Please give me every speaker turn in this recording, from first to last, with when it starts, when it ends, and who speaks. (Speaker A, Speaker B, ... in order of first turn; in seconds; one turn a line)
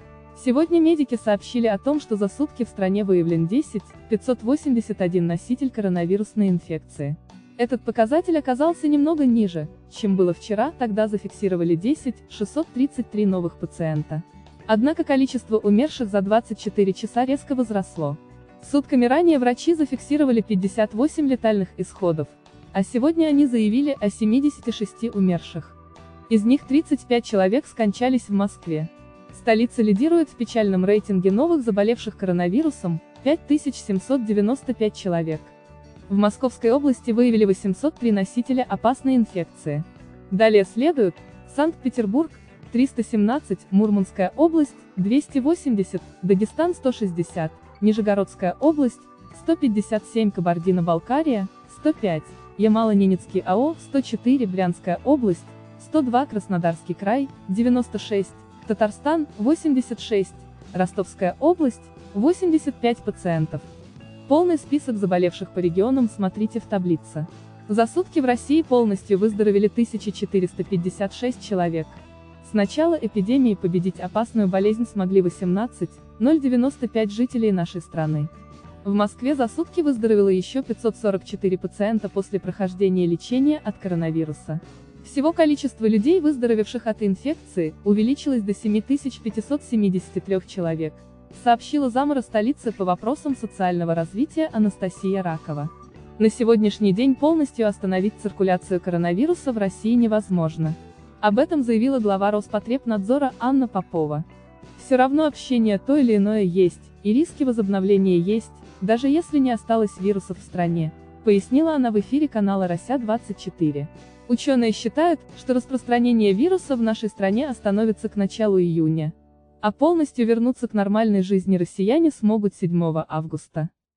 Speaker A: 0.3-25.8
Speaker A: 26.3-35.5
Speaker A: 36.1-63.7
Speaker A: 64.3-78.3
Speaker A: 78.8-104.2
Speaker A: 104.8-123.7